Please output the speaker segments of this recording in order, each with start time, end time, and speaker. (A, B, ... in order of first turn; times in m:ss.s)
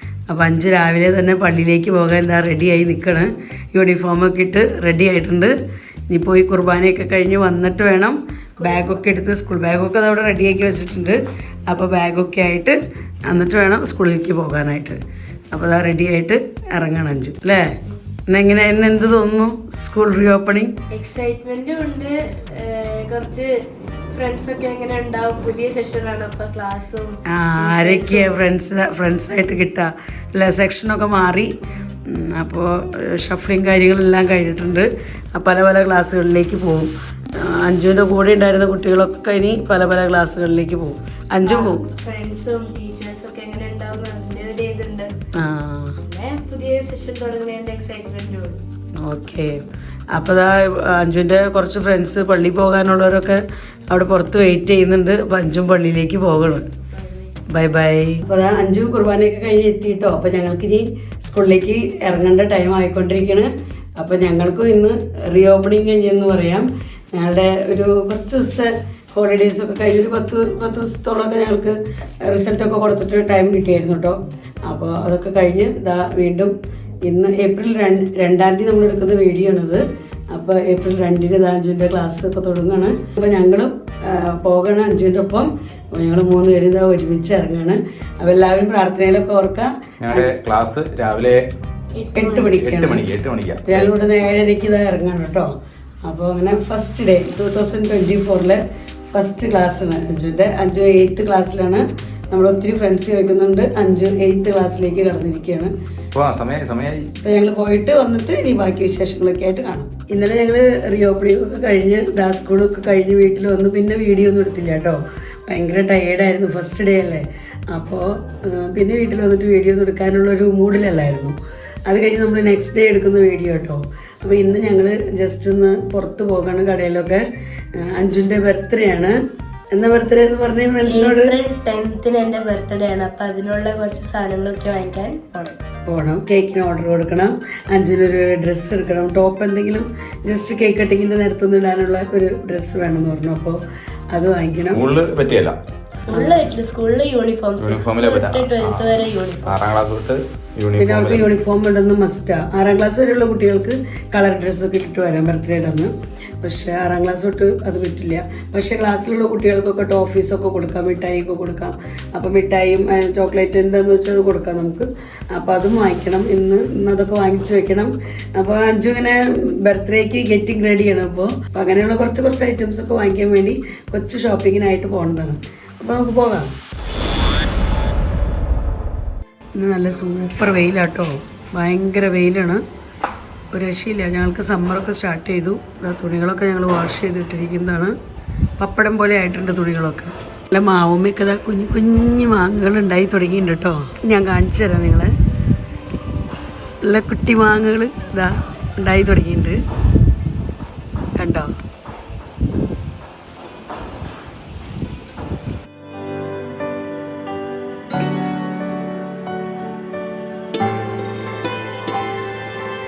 0:00.3-0:05.5 A
0:06.1-0:15.0 A
0:08.6-0:09.0 B
0:15.5-0:17.8 A
0:18.3-0:20.7 A
0:20.9-0:23.5 B
0:24.1-0:28.4 B
0:27.3-0:31.5 A
0:32.1-0:41.8 A
0:41.4-0:45.1 B
0:45.4-0:46.0 A
0:46.0-0:48.6 B
0:49.0-0:49.6 A
0:50.2-0:56.7 A
0:57.5-1:16.5 A
1:17.0-1:30.3 A
1:30.0-1:31.4 C
1:32.0-1:32.6 B
1:32.2-1:33.1 A
1:32.5-1:33.9 C
1:33.7-1:35.5 A
1:36.0-1:45.7 A
1:46.2-1:47.1 C
1:47.2-2:07.2 A
2:07.8-2:09.2 A
2:09.7-2:11.4 A
2:10.9-2:15.6 B
2:15.9-2:23.6 A
2:24.1-2:24.8 A
2:24.6-2:25.6 C
2:26.1-2:29.6 B
2:26.2-2:26.5 A
2:27.6-2:31.3 C
2:30.8-2:56.5 A
2:59.6-3:02.6 A
3:03.5-3:07.9 A
3:08.6-3:15.1 A
3:16.8-3:19.6 A
3:21.2-3:21.5 A